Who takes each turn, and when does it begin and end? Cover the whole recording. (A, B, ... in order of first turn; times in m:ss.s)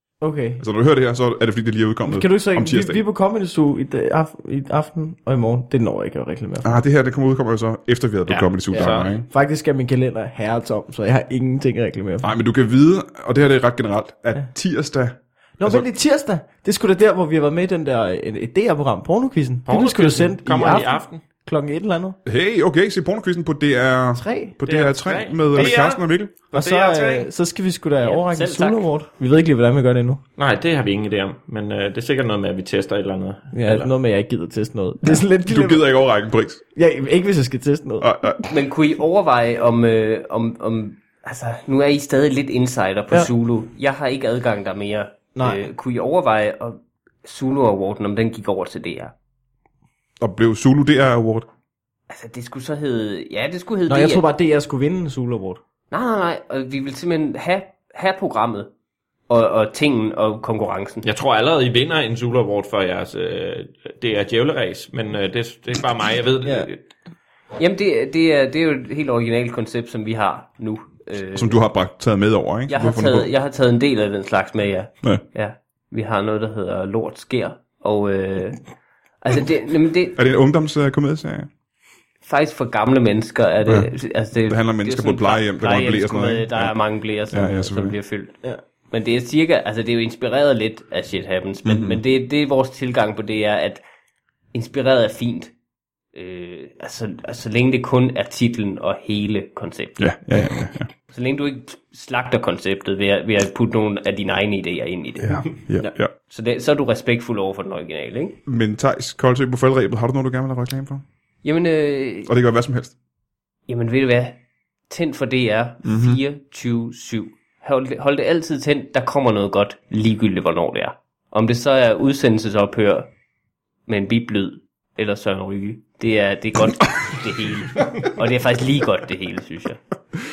0:00.2-0:00.6 A
0:00.6-0:03.0 B
0:02.1-0:06.8 A
0:06.6-0:09.3 B
0:08.3-0:09.1 C
0:08.7-0:12.3 A
0:12.2-0:15.8 B
0:15.6-0:22.2 A
0:19.7-0:21.2 C
0:22.3-0:26.3 B
0:24.2-0:24.6 A
0:24.6-0:27.3 C
0:26.5-0:30.2 A
0:28.0-0:28.9 D
0:30.4-0:33.9 C
0:33.5-0:35.8 A
0:35.5-0:36.6 B
0:36.8-0:38.1 A
0:38.0-0:38.4 B
0:38.5-0:49.1 D
0:45.4-0:45.7 A
0:50.2-0:51.5 B
0:52.1-0:54.2 D
0:53.9-0:55.6 A
0:55.9-0:58.7 D
0:59.3-1:01.1 D
1:01.0-1:06.8 C
1:06.4-1:06.7 A
1:07.6-1:11.6 D
1:11.3-1:13.3 B
1:12.7-1:18.6 D
1:19.2-1:20.2 D
1:20.2-1:21.5 B
1:22.2-1:28.4 D
1:24.5-1:26.8 B
1:27.3-1:28.0 B
1:28.9-1:33.8 D
1:31.7-1:32.0 B
1:34.5-1:35.5 D
1:36.1-1:40.1 D
1:40.0-1:40.9 B
1:41.1-1:45.6 D
1:45.2-1:46.1 B
1:46.3-1:48.4 D
1:48.5-1:51.0 B
1:51.4-1:52.3 D
1:52.3-1:53.0 B
1:53.7-1:54.4 D
1:54.9-2:03.1 D
1:55.8-1:56.2 B
2:03.9-2:09.8 D